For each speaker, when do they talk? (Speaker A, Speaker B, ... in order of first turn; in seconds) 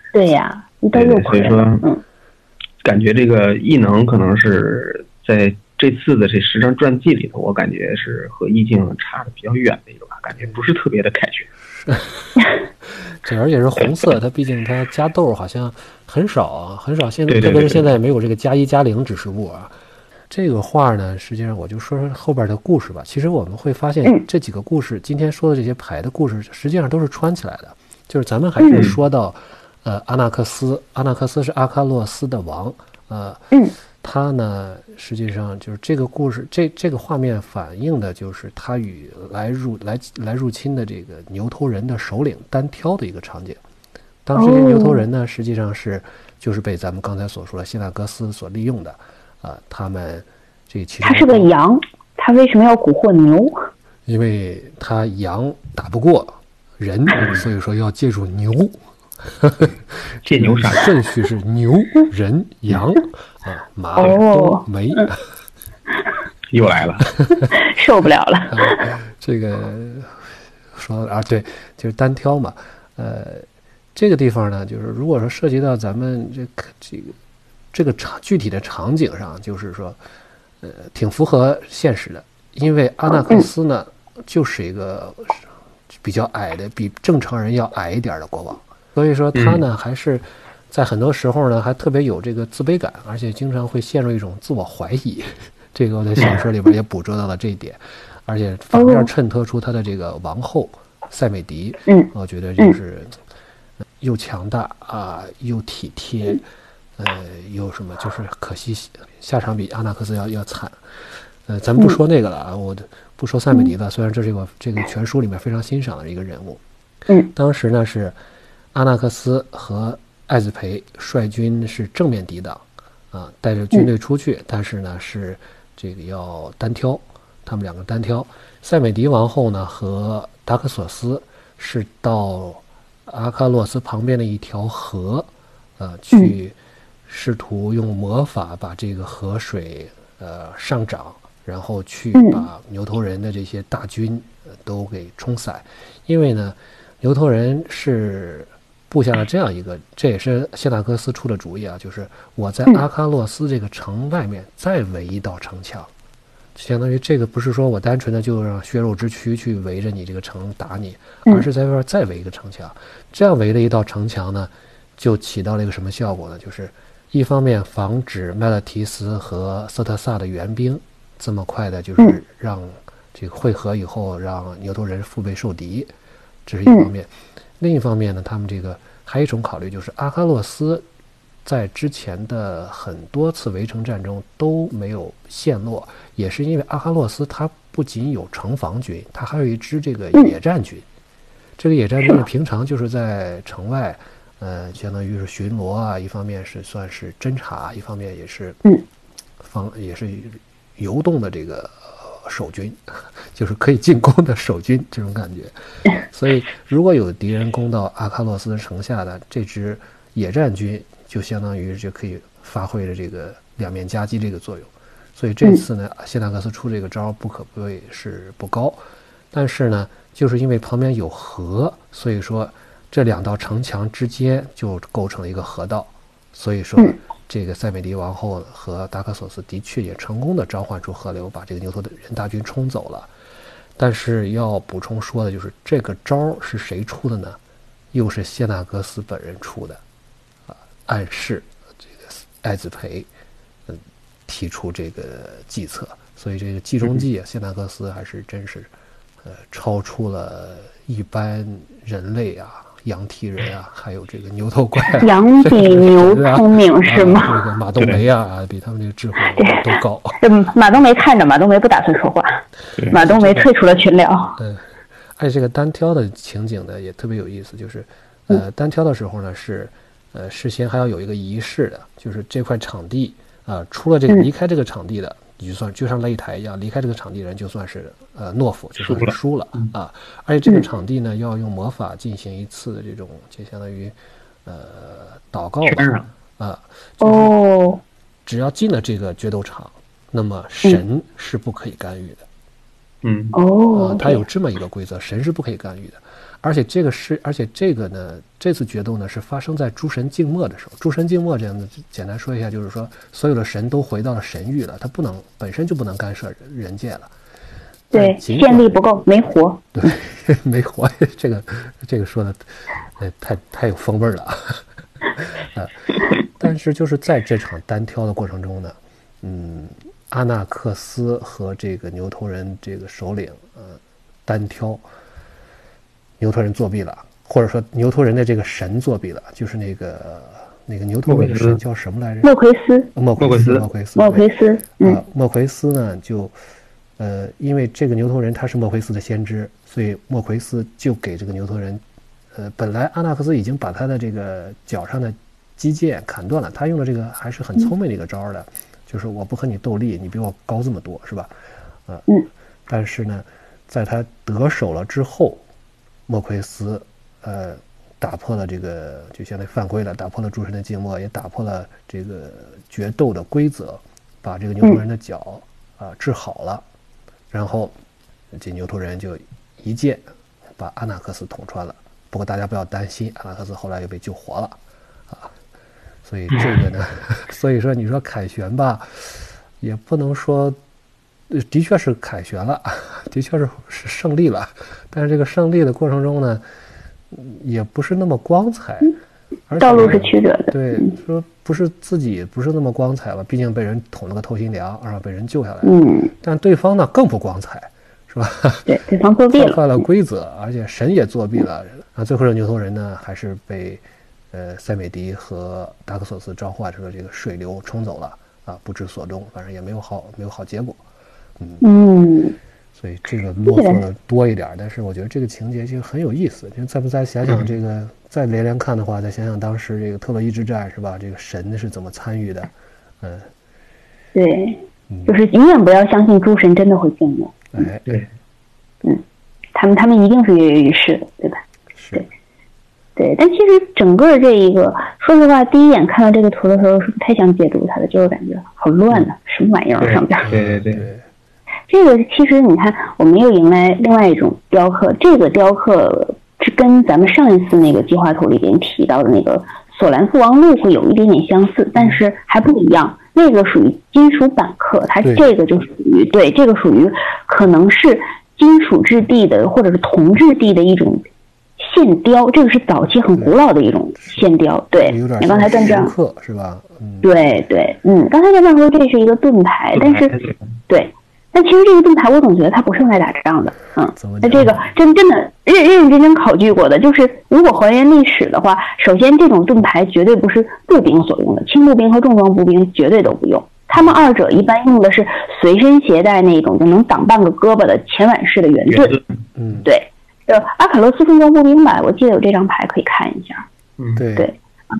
Speaker A: 0.1-2.0, 44.4-45.0, 51.0-53.6, 64.0-65.1, 67.5-68.9, 98.7-99.1, 101.9-102.8, 142.2-142.4, 255.0-257.4, 259.4-264.4, 287.0-287.8, 293.3-294.2, 307.9-309.6, 332.2-332.9, 334.0-335.0, 389.6-390.9, 395.6-396.1, 398.7-399.6, 411.6-412.4, 413.5-413.8, 424.1-427.6, 429.5-431.4, 433.0-440.3, 441.7-461.1, 461.6-465.9, 467.0-470.1, 470.7-489.0, 489.6-493.4
Speaker B: 0.9-1.8, 2.8-11.5, 17.3-17.9, 60.3-60.9, 66.5-67.1, 89.3-89.6, 278.8-279.7, 285.6-286.1, 293.0-293.4, 331.1-331.6, 333.2-333.6, 439.8-440.9, 469.8-470.4, 488.7-489.1
Speaker C: 11.7-19.7, 20.3-33.4, 34.0-43.6, 44.2-51.5, 54.1-65.2, 67.2-67.5, 68.5-77.2, 77.7-80.0, 80.6-103.2, 104.0-106.4, 107.0-110.8, 111.5-116.6, 117.3-118.2, 118.7-136.6, 137.1-155.9, 156.6-175.9, 176.5-180.9, 181.4-190.9, 191.6-198.6, 199.4-205.5, 206.1-218.8, 219.3-233.1, 233.8-237.4, 237.9-239.8, 240.5-243.1, 243.7-248.7, 249.2-260.2, 262.9-263.5, 264.4-264.7, 265.2-287.3, 288.3-292.2, 293.7-307.1, 307.9-308.8, 309.7-314.6, 315.2-324.8, 326.2-332.3, 332.9-334.3, 334.8-336.4, 337.0-341.8, 342.3-351.3, 352.7-355.4, 356.1-366.6, 367.3-367.8, 368.3-370.1, 370.6-374.6, 376.1-380.6, 381.3-386.4, 387.1-388.9, 389.5-398.7, 399.3-410.8, 411.4-411.6, 412.8-423.3, 424.9-425.2, 427.5-428.0, 431.8-432.1, 440.2-441.0, 455.0-455.3, 464.8-467.1, 474.0-474.7, 489.4-489.7, 494.0-494.3